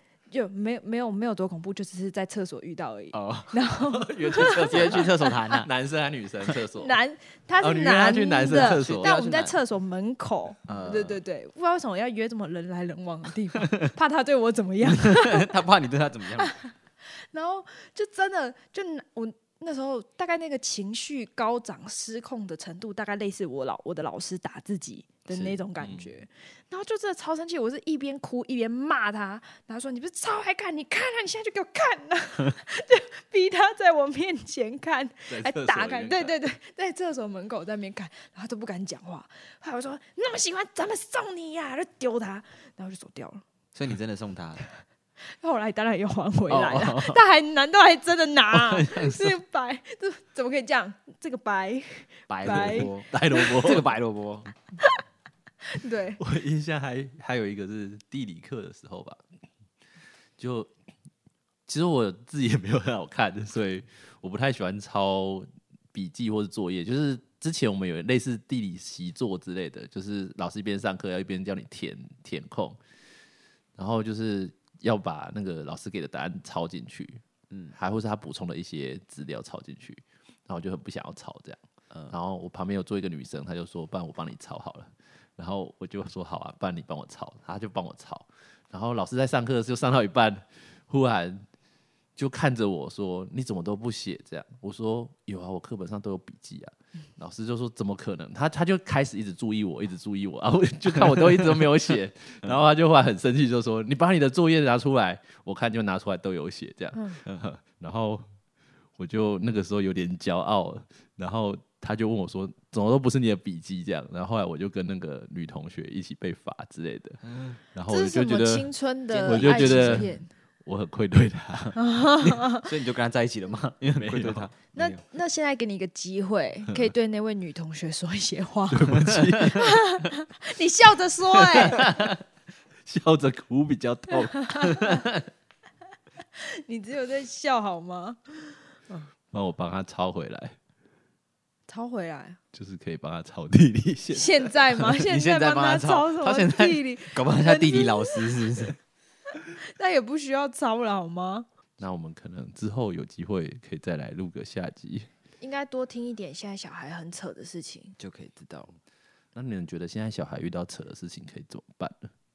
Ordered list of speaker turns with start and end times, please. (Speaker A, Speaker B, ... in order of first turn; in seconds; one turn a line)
Speaker A: 0.3-5.6
Speaker B: 3.1-3.6
Speaker C: 3.8-7.0
Speaker B: 4.4-5.7
Speaker A: 6.8-15.5
Speaker C: 7.6-9.1
Speaker B: 8.4-9.6
Speaker B: 10.7-11.2
Speaker B: 14.8-16.5
Speaker A: 16.4-43.4
Speaker B: 25.3-25.6
Speaker C: 25.8-26.1
Speaker C: 35.3-36.3
Speaker B: 43.7-44.6
Speaker A: 45.3-53.5
Speaker B: 46.5-47.2
Speaker B: 48.5-49.4
Speaker B: 52.3-54.5
Speaker C: 52.4-53.9
Speaker A: 55.7-56.2
Speaker C: 56.2-59.2
Speaker C: 60.4-60.7
Speaker C: 61.7-72.8
Speaker C: 73.8-77.2
Speaker B: 77.5-77.8
Speaker C: 77.7-91.5
Speaker C: 92.2-108.2
Speaker B: 101.1-101.8
Speaker A: 106.9-107.2
Speaker C: 109.0-117.2
Speaker B: 117.2-117.6
Speaker C: 117.7-118.7
Speaker A: 117.9-120.3
Speaker B: 119.1-120.1
Speaker C: 119.2-120.1
Speaker C: 120.6-121.8
Speaker A: 121.8-122.7
Speaker B: 122.2-125.0
Speaker C: 124.0-124.5
Speaker A: 124.7-131.9
Speaker C: 128.7-129.7
Speaker B: 131.7-132.0
Speaker C: 132.8-135.0
Speaker A: 134.4-135.0
Speaker B: 134.9-135.2
Speaker A: 136.4-139.0
Speaker C: 139.3-140.6
Speaker A: 141.7-142.4
Speaker C: 142.5-145.0
Speaker A: 144.1-148.4
Speaker B: 145.1-148.8
Speaker A: 149.3-151.5
Speaker C: 151.8-155.1
Speaker A: 155.4-157.9
Speaker B: 158.0-158.7
Speaker C: 159.3-162.1